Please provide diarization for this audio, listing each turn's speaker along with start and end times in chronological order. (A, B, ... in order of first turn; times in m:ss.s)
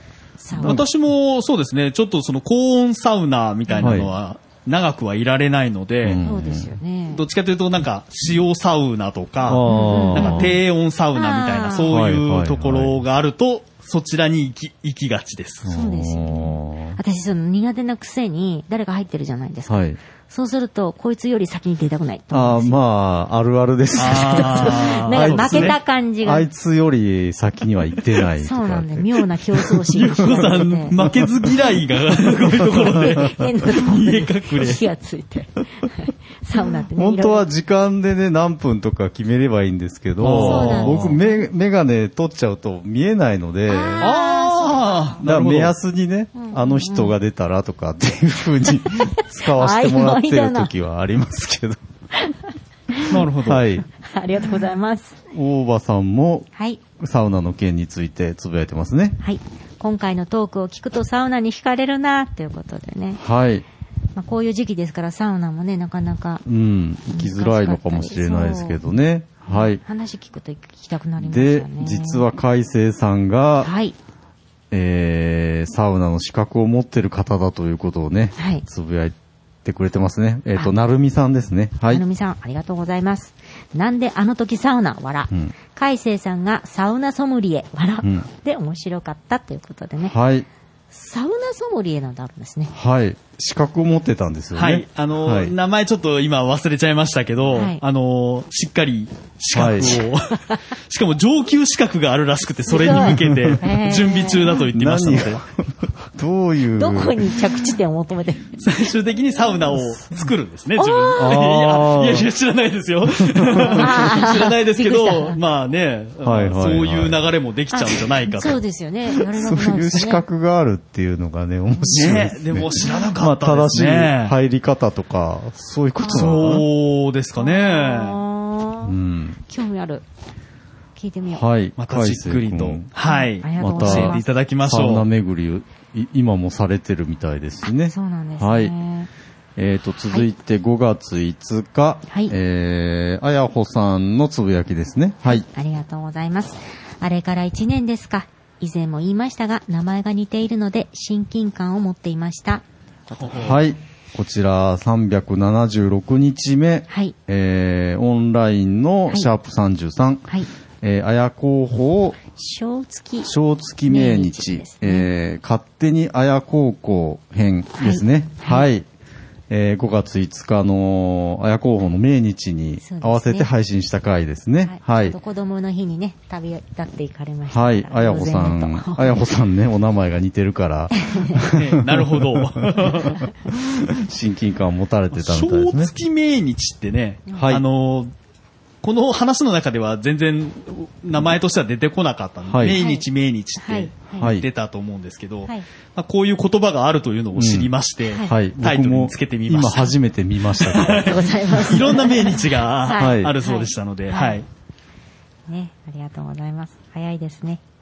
0:00.4-0:00.8 A
0:00.6-0:00.8 B
0:00.6-0:06.2 C
0:03.7-0:04.1 A
0:03.8-0:04.1 B
0:06.0-0:06.7 B
0:06.2-0:07.2 A
0:07.1-0:15.8 C
0:09.4-0:10.6 B
0:09.7-0:10.5 A
0:11.1-0:11.9 A
0:11.8-0:13.0 B
0:15.6-0:17.0 B
0:15.7-0:22.8 A
0:19.7-0:20.0 B
0:22.3-0:29.7 B
0:24.0-0:25.8 C
0:24.0-0:26.5 A
0:28.4-0:31.0 A
0:29.9-0:34.8 C
0:31.0-0:31.3 B
0:32.7-0:33.1 B
0:33.1-0:37.4 A
0:37.0-0:44.1 B
0:40.2-0:41.2 C
0:40.3-0:41.4 A
0:43.7-0:45.2 A
0:44.0-0:45.7 C
0:45.2-0:51.8 B
0:46.3-0:47.1 A
0:48.8-0:50.7 A
0:52.1-0:53.1 A
0:53.1-0:53.6 C
0:53.4-0:53.8 B
0:53.9-0:55.2 A
0:55.3-0:56.5 B
0:56.6-0:56.8 A
0:57.0-0:59.2 B
0:59.2-1:03.2 A
1:03.2-1:03.6 B
1:04.2-1:06.4 A
1:06.4-1:09.8 B
1:07.1-1:08.8 A
1:09.5-1:12.2 A
1:11.2-1:13.7 B
1:13.6-1:13.9 A
1:14.7-1:22.0 B
1:18.4-1:18.6 A
1:21.9-1:30.1 A
1:30.0-1:30.5 B
1:30.9-1:32.7 A
1:32.7-1:35.5 B
1:34.6-1:45.4 C
1:37.5-1:37.8 A
1:39.5-1:40.0 B
1:42.7-1:44.6 A
1:43.1-1:43.6 B
1:44.7-1:47.4 B
1:46.8-1:48.6 A
1:48.6-1:58.6 C
1:50.8-1:51.4 A
1:51.2-1:52.3 B
1:53.1-1:54.1 B
1:53.6-1:55.4 A
1:56.2-1:57.3 B
1:57.7-2:00.2 A
1:59.2-2:06.6 B
2:01.8-2:04.4 C
2:06.0-2:06.3 A
2:06.0-2:08.2 C
2:07.4-2:08.9 A
2:08.8-2:09.4 B
2:09.5-2:10.0 A
2:11.0-2:11.4 A
2:11.3-2:12.9 B
2:11.8-2:15.1 C
2:13.0-2:14.2 A
2:13.6-2:18.7 B
2:17.9-2:19.1 A
2:19.6-2:25.4 B
2:22.1-2:22.3 A
2:25.2-2:33.6 A
2:33.2-2:33.6 C
2:33.4-2:40.3 B
2:36.9-2:37.1 A
2:40.8-2:42.2 B
2:42.3-2:43.3 A
2:43.2-2:48.8 B
2:43.9-2:45.1 A
2:47.8-2:48.7 A
2:49.5-2:55.2 B
2:52.8-2:53.5 A
2:54.6-2:59.2 A
2:57.5-3:05.9 B
3:01.0-3:01.4 A
3:01.5-3:03.1 C
3:05.1-3:08.1 C
3:07.3-3:07.6 B
3:08.8-3:20.0 C
3:12.4-3:12.8 B
3:12.7-3:13.0 A
3:13.6-3:14.3 A
3:14.2-3:14.4 B
3:17.3-3:17.7 B
3:18.2-3:21.2 B
3:20.6-3:24.4 C
3:20.8-3:24.4 A
3:23.0-3:23.3 B
3:25.5-3:27.6 A